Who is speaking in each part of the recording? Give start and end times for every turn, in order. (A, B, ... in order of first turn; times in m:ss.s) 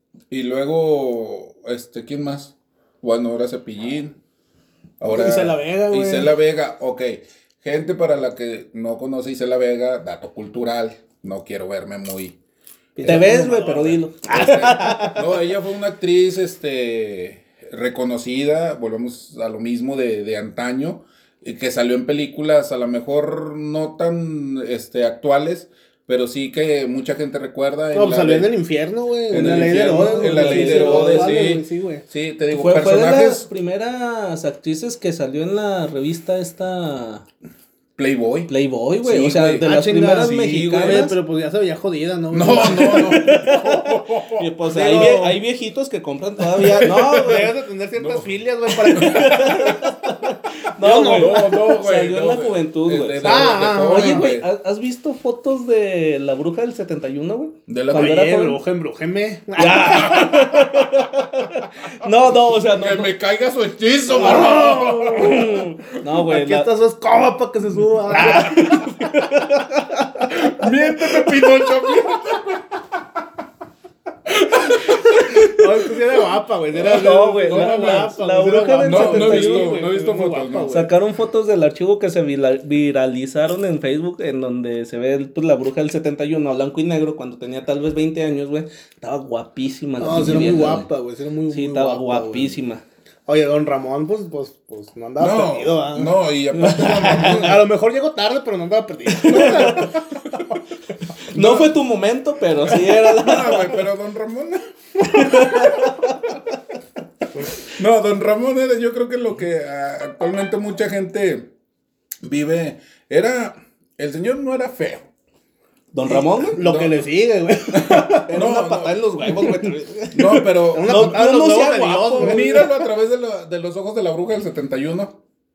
0:00.3-0:04.2 A
0:05.0-0:12.4 A
0:05.1-0:06.3 B
0:13.0-0:15.2 B
0:13.0-0:13.4 A
0:13.0-0:15.1 C
0:14.3-0:28.5 A
0:27.9-0:32.0 B
0:29.3-0:33.5 A
0:29.9-0:31.4 C
0:32.5-0:37.3 C
0:38.0-0:38.5 A
0:38.5-0:41.1 C
0:39.0-0:39.6 A
0:39.6-0:43.9 B
0:40.2-0:41.1 A
0:42.3-0:45.1 A
0:42.6-0:43.6 C
0:44.4-0:47.5 C
0:44.7-0:45.4 B
0:46.5-0:47.5 A
0:47.1-0:51.6 B
0:48.0-0:48.3 A
0:48.8-0:58.6 C
0:48.9-0:49.8 A
0:51.1-0:54.5 A
0:53.2-0:54.3 B
0:57.7-0:58.2 A
0:57.9-1:00.4 B
0:59.6-1:03.1 C
0:59.8-1:01.0 A
1:02.1-1:05.7 A
1:04.1-1:05.5 B
1:05.1-1:06.7 C
1:06.2-1:09.1 B
1:08.0-1:08.8 A
1:08.1-1:10.3 C
1:10.3-1:12.6 A
1:14.3-1:15.5 A
1:15.2-1:20.9 B
1:16.7-1:18.1 A
1:16.8-1:19.8 C
1:18.8-1:20.8 A
1:20.7-1:30.9 C
1:30.0-1:32.6 B
1:30.1-1:30.8 A
1:31.5-1:32.8 C
1:33.3-1:36.1 B
1:35.2-1:37.6 A
1:36.5-1:37.5 C
1:36.8-1:40.1 B
1:39.1-1:39.9 C
1:39.3-1:40.6 A
1:41.3-1:41.8 A
1:41.3-1:43.9 C
1:42.6-1:46.0 A
1:45.0-1:46.4 C
1:47.8-1:51.5 A
1:52.2-1:55.0 A
1:55.9-1:56.6 C
1:56.1-1:57.1 A
1:56.1-1:58.3 B
1:57.7-1:59.0 A
1:58.3-2:02.7 C
2:00.1-2:01.2 A
2:00.6-2:02.7 B
2:02.2-2:05.2 A